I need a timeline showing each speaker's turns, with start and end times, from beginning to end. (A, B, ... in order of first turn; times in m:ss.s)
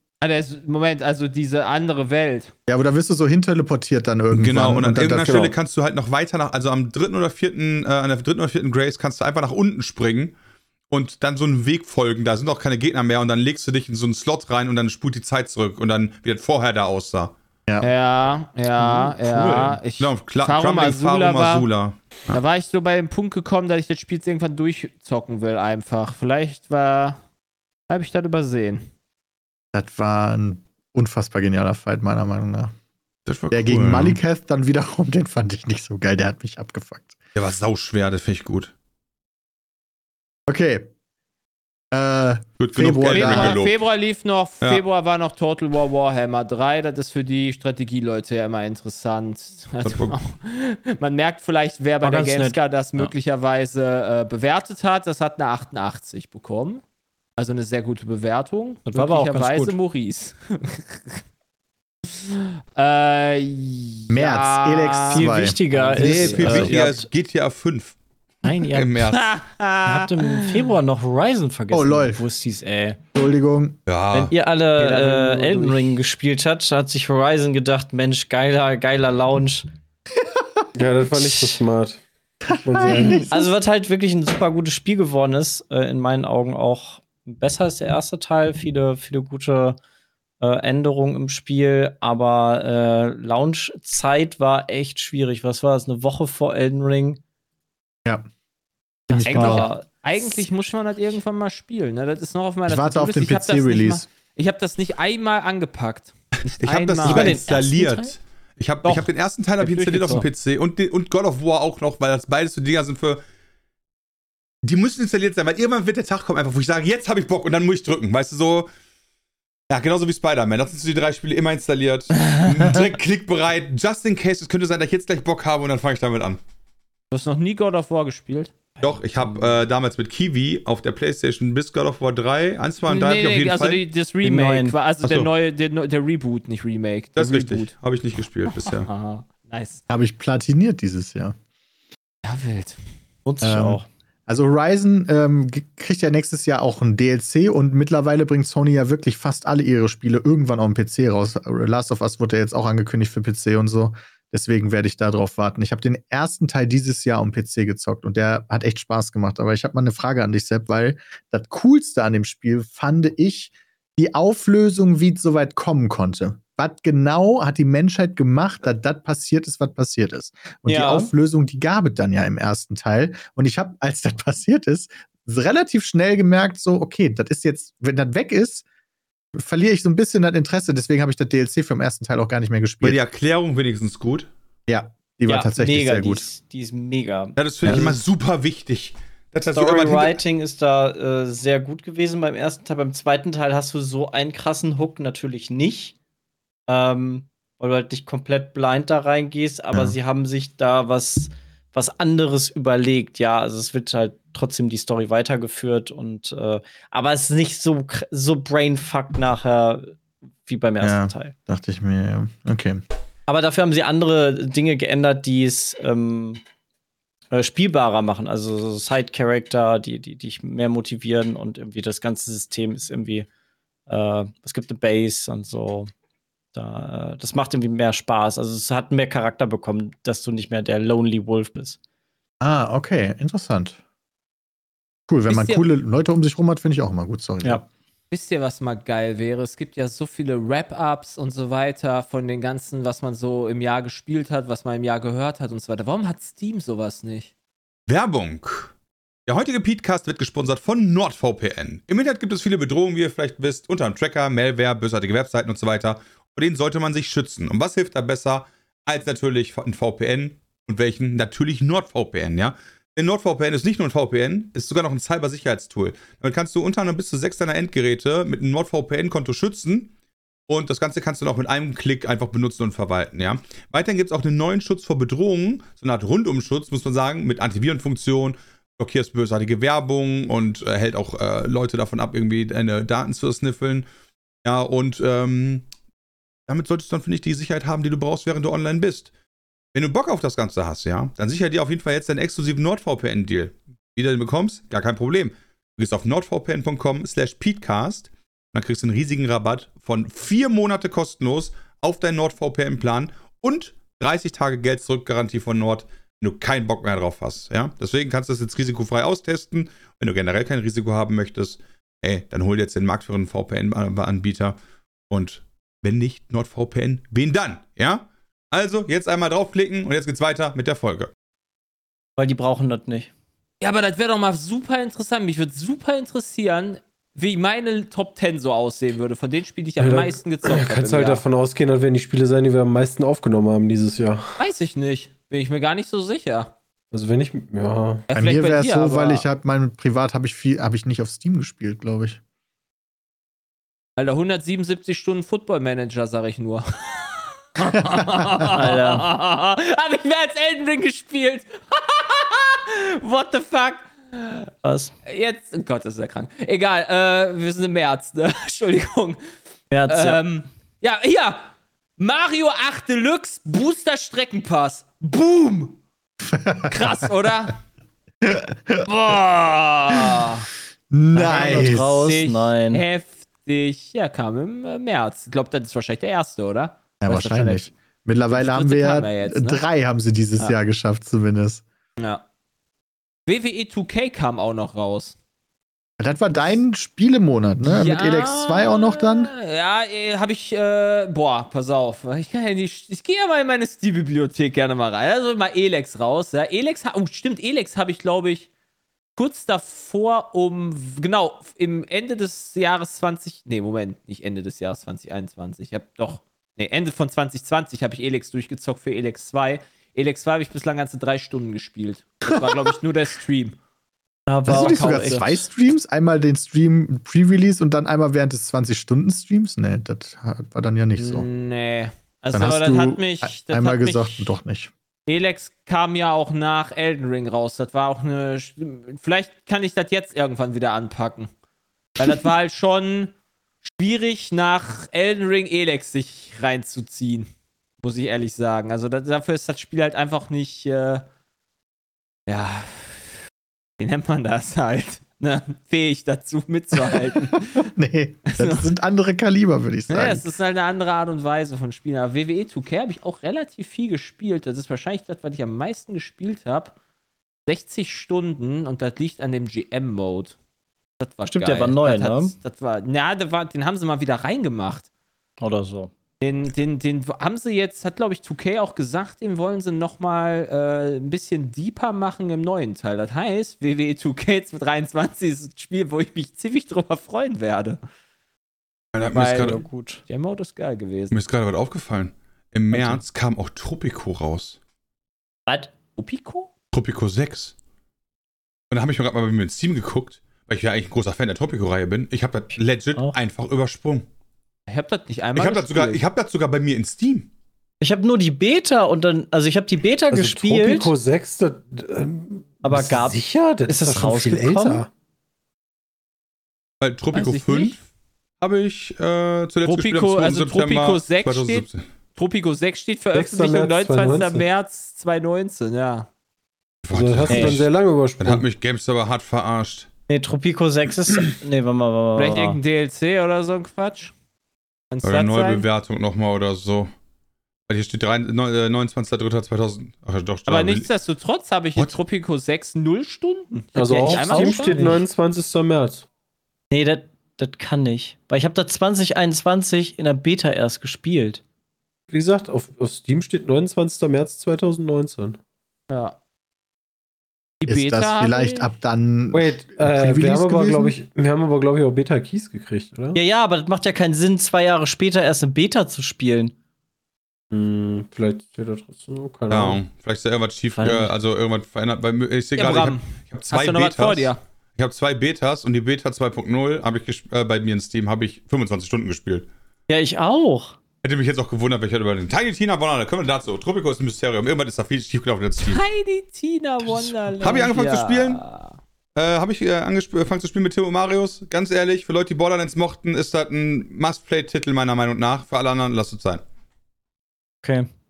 0:00.2-0:02.5 A
0:02.7-0:05.5 B
0:04.3-0:10.3 C
0:05.2-0:05.5 D
0:10.9-0:17.3 C
0:17.8-0:21.6 A
0:19.3-0:19.7 E
0:20.0-0:22.4 C
0:22.3-0:27.2 A
0:27.9-0:28.8 A
0:29.7-0:32.7 B
0:33.2-0:34.2 C
0:33.5-0:37.2 B
0:37.3-0:38.7 C
0:40.5-0:40.9 B
0:41.9-0:43.6 B
0:42.6-0:43.8 C
0:43.1-0:56.8 A
0:49.8-0:50.2 C
0:52.0-0:53.1 E
0:57.4-1:01.2 A
0:58.9-0:59.8 E
1:02.1-1:06.8 A
1:04.1-1:05.6 B
1:05.1-1:07.1 E
1:05.9-1:08.0 C
1:08.4-1:09.1 E
1:08.6-1:09.3 C
1:09.1-1:10.7 A
1:09.8-1:13.0 E
1:11.7-1:12.2 B
1:13.1-1:13.8 B
1:13.9-1:14.3 C
1:14.1-1:19.6 E
1:14.8-1:15.8 D
1:20.7-1:23.2 D
1:22.5-1:23.5 B
1:23.3-1:29.8 E
1:30.4-1:37.2 E
1:39.1-1:39.7 B
1:39.1-1:39.8 E
1:39.2-1:47.5 A
1:42.7-1:44.0 B
1:46.5-1:53.2 C
1:47.0-1:48.1 E
1:48.8-1:49.1 A
1:49.6-1:50.3 A
1:54.6-1:58.7 C
1:59.7-2:06.4 C
2:07.1-2:08.5 A
2:08.8-2:13.8 C
2:12.8-2:17.7 A
2:14.2-2:14.7 E
2:15.0-2:15.3 C
2:17.2-2:18.9 C
2:18.5-2:19.8 A
2:19.9-2:21.3 B
2:22.2-2:22.8 A
2:23.2-2:23.8 E
2:23.4-2:58.6 B
2:50.7-2:51.1 E
2:59.3-3:03.0 B
3:02.8-3:04.3 C
3:04.7-3:06.2 B
3:05.3-3:08.0 E
3:07.4-3:10.2 C
3:09.5-3:15.9 E
3:16.7-3:31.3 E
3:30.8-3:32.8 B
3:33.3-3:36.4 E
3:37.3-3:43.3 E
3:43.9-3:45.9 E
3:46.5-3:51.8 E
3:52.4-3:53.8 B
3:55.1-3:57.6 B
3:55.3-3:55.7 A
3:58.1-4:07.3 A
4:07.9-4:08.7 C
4:09.2-4:29.9 C
4:30.5-4:43.8 C
4:44.4-4:45.6 C
4:46.5-4:49.1 C
4:49.7-5:14.6 C
5:15.1-5:21.1 C
5:22.2-5:23.1 E
5:23.6-5:31.2 A
5:29.8-5:34.2 D
5:34.4-5:36.5 A
5:36.9-5:38.0 D
5:38.1-5:39.2 A
5:38.1-5:42.2 B
5:44.0-5:54.5 A
5:47.8-5:48.5 B
5:48.5-5:49.0 E
5:54.6-5:54.9 E
5:55.0-5:59.2 A
5:59.7-6:00.2 E
5:59.9-6:05.8 A
6:06.2-6:06.9 B
6:06.7-6:07.6 A
6:08.2-6:08.8 B
6:08.8-6:10.5 A
6:10.9-6:12.0 B
6:11.1-6:12.8 E
6:11.3-6:17.7 A
6:17.0-6:21.6 B
6:18.3-6:19.6 A
6:22.0-6:22.2 A
6:23.3-6:25.1 A
6:26.0-6:29.3 B
6:27.6-6:38.5 A
6:39.2-6:53.6 A
6:54.3-6:55.3 E
6:54.5-7:01.2 B
6:54.8-6:55.2 A
7:01.0-7:04.3 A
7:02.3-7:04.7 B
7:05.1-7:11.3 A
7:12.0-7:13.1 A
7:13.7-7:17.3 A
7:17.8-7:21.0 A
7:22.3-7:23.0 A
7:23.8-7:27.6 A
7:26.9-7:30.2 B
7:28.3-7:28.7 A
7:29.9-7:36.7 A
7:37.4-7:40.4 A
7:41.0-7:44.8 A
7:41.3-7:42.3 E
7:45.4-7:45.9 E
7:46.2-7:57.8 A
7:58.9-7:59.6 C
7:59.1-8:01.1 A
7:59.3-8:00.0 E
8:01.1-8:04.6 C
8:02.7-8:03.0 E
8:05.5-8:05.7 E
8:06.0-8:06.5 A
8:06.7-8:07.5 C
8:08.7-8:14.0 C
8:14.7-8:16.0 A
8:15.3-8:17.3 C
8:17.8-8:20.9 E
8:20.1-8:24.9 D
8:22.6-8:24.8 E
8:26.8-8:27.8 C
8:27.1-8:27.8 A
8:28.4-8:31.8 C
8:29.6-8:36.1 A
8:33.1-8:34.4 D
8:36.8-8:39.9 C
8:36.9-8:38.4 D
8:37.3-8:37.6 E
8:40.1-8:42.6 E
8:42.2-8:44.1 A
8:44.9-8:45.6 A
8:45.0-8:46.9 C
8:47.7-8:50.9 C
8:50.5-8:55.0 A
8:53.8-8:56.0 D
8:53.9-8:55.0 E
8:56.7-9:01.4 E
9:02.1-9:05.4 D
9:05.9-9:06.2 A
9:07.6-9:08.7 A
9:07.7-9:10.9 B
9:09.3-9:13.2 D
9:13.1-9:16.5 E
9:17.5-9:19.8 D
9:19.5-9:29.5 C
9:20.7-9:21.1 E
9:22.6-9:24.4 A
9:29.9-9:30.8 E
9:31.0-9:35.8 C
9:35.6-9:38.7 A
9:37.4-9:38.4 C
9:39.2-9:46.4 C